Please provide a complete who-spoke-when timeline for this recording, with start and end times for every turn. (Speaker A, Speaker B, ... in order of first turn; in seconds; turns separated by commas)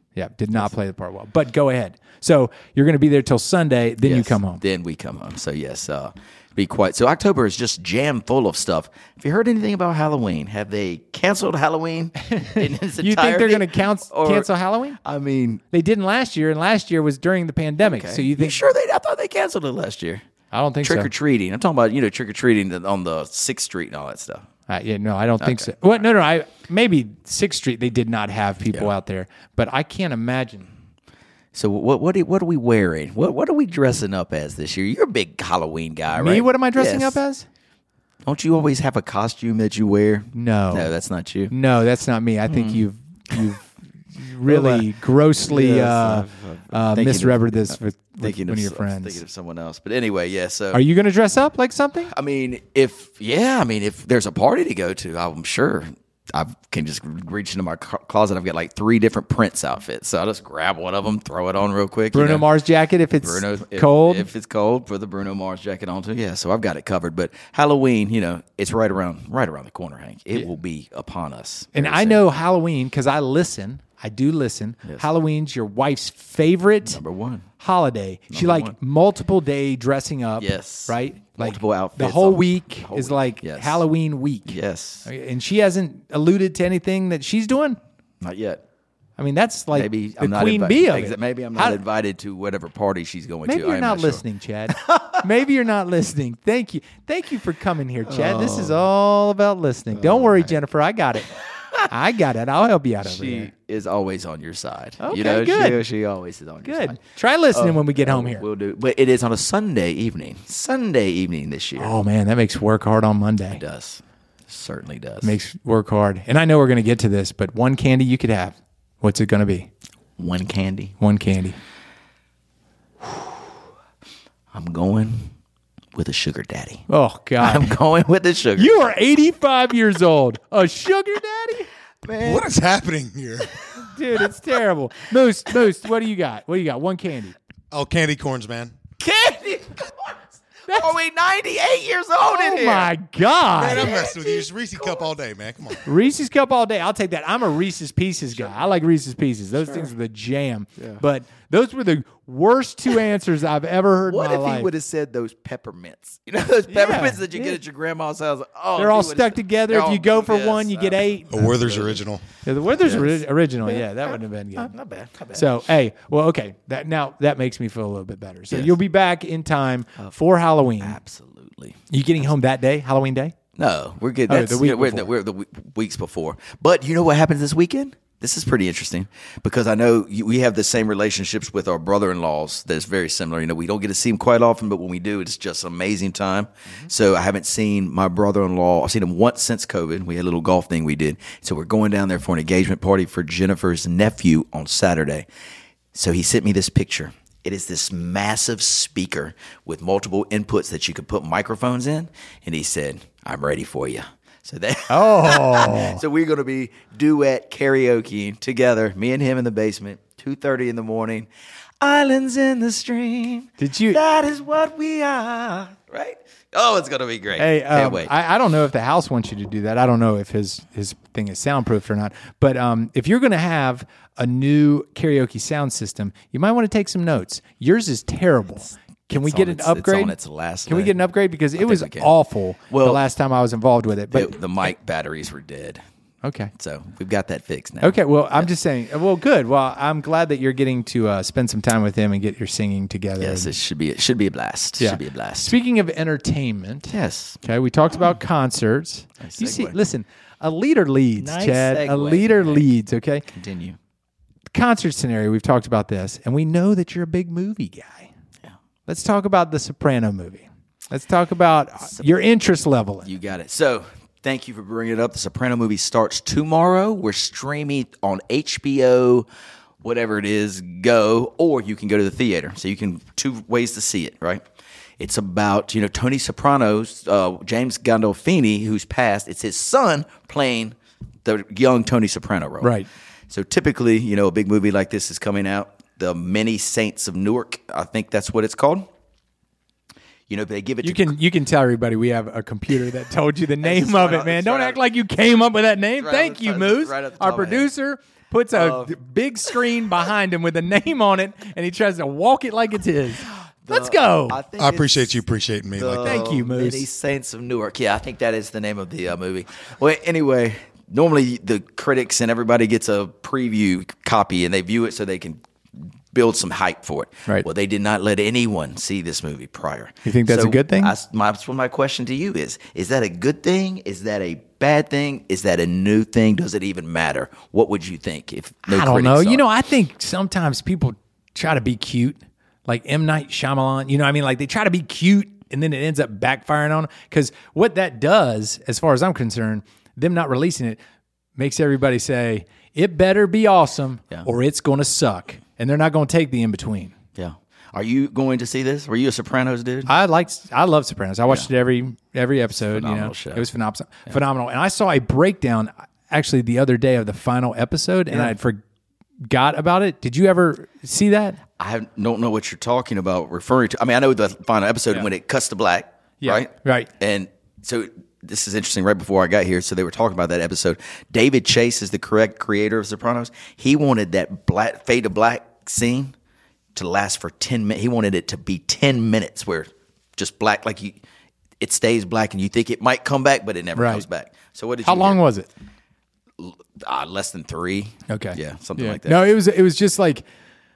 Speaker A: 0.1-4.6, Speaker B: 4.0-15.6, Speaker A: 12.3-15.0, Speaker A: 15.7-18.6, Speaker B: 17.8-20.2, Speaker A: 20.5-21.1, Speaker B: 20.8-24.5, Speaker A: 24.7-30.7, Speaker B: 25.4-25.7, Speaker B: 31.5-37.2, Speaker A: 36.1-37.5, Speaker B: 38.2-41.5, Speaker A: 40.3-40.9, Speaker A: 41.5-49.2, Speaker B: 42.5-42.8, Speaker B: 44.5-44.9, Speaker B: 45.4-50.8, Speaker A: 50.7-52.1, Speaker B: 52.1-62.5, Speaker A: 62.1-64.3, Speaker B: 63.2-72.2, Speaker A: 71.7-77.0, Speaker B: 76.9-77.5, Speaker A: 77.6-87.8, Speaker B: 78.3-78.8, Speaker B: 80.4-83.8, Speaker B: 84.5-85.1, Speaker B: 88.2-88.6, Speaker A: 89.2-91.8, Speaker B: 89.7-94.2, Speaker A: 93.4-101.3, Speaker B: 94.7-95.1, Speaker B: 98.0-98.8, Speaker B: 99.9-100.5, Speaker A: 101.9-103.5, Speaker B: 103.0-107.0, Speaker A: 105.0-105.8, Speaker A: 106.6-108.4, Speaker B: 107.5-111.9, Speaker A: 111.8-113.6, Speaker B: 113.5-115.4, Speaker A: 115.2-119.7, Speaker B: 120.2-120.9, Speaker A: 121.0-121.6, Speaker B: 124.5-125.3, Speaker B: 125.9-126.8, Speaker A: 126.9-127.8, Speaker B: 127.4-128.8, Speaker A: 128.6-131.7, Speaker B: 132.0-132.5, Speaker C: 132.2-133.5, Speaker A: 133.8-137.3, Speaker C: 137.7-138.8, Speaker B: 139.0-142.9, Speaker A: 140.7-140.9, Speaker A: 142.2-144.0, Speaker C: 143.6-145.8, Speaker B: 143.6-145.1, Speaker A: 145.8-154.7, Speaker B: 154.0-162.0, Speaker A: 156.7-157.6, Speaker A: 158.8-161.6, Speaker C: 161.3-162.2, Speaker A: 162.4-164.7, Speaker B: 162.8-165.5, Speaker A: 165.3-171.0, Speaker B: 168.5-168.8, Speaker B: 170.8-171.9, Speaker A: 171.9-173.3, Speaker B: 173.6-195.3, Speaker A: 174.3-175.1, Speaker B: 195.9-211.3, Speaker A: 204.9-206.0, Speaker B: 211.8-218.1, Speaker A: 213.6-214.0, Speaker A: 217.4-234.4, Speaker B: 229.1-231.0, Speaker B: 231.6-232.1, Speaker B: 232.7-233.0, Speaker B: 234.1-235.8, Speaker A: 236.2-236.5, Speaker B: 236.5-238.5, Speaker A: 237.8-243.5, Speaker B: 243.2-245.5, Speaker A: 244.8-253.2, Speaker B: 246.9-247.4, Speaker B: 249.2-249.8, Speaker B: 251.2-252.7, Speaker B: 253.3-253.8, Speaker A: 254.5-258.1, Speaker A: 258.9-263.1, Speaker B: 263.0-269.3, Speaker B: 269.8-274.4, Speaker B: 275.0-282.7, Speaker A: 282.6-282.9, Speaker B: 283.3-288.9, Speaker B: 290.3-291.1, Speaker A: 290.8-304.4, Speaker B: 293.6-294.8, Speaker B: 296.0-297.7, Speaker B: 298.5-298.9, Speaker B: 303.6-305.2, Speaker C: 304.6-306.2, Speaker B: 305.7-329.4, Speaker A: 306.0-306.9, Speaker A: 320.0-320.9, Speaker A: 328.6-340.8, Speaker A: 341.4-346.9, Speaker B: 347.1-349.9, Speaker A: 349.9-358.6, Speaker B: 352.7-353.4, Speaker A: 359.2-361.4, Speaker B: 361.6-376.1, Speaker A: 366.2-366.9, Speaker B: 376.7-381.0, Speaker B: 381.6-385.2, Speaker A: 383.7-384.0, Speaker A: 384.8-385.5, Speaker B: 386.4-389.3, Speaker A: 388.1-390.2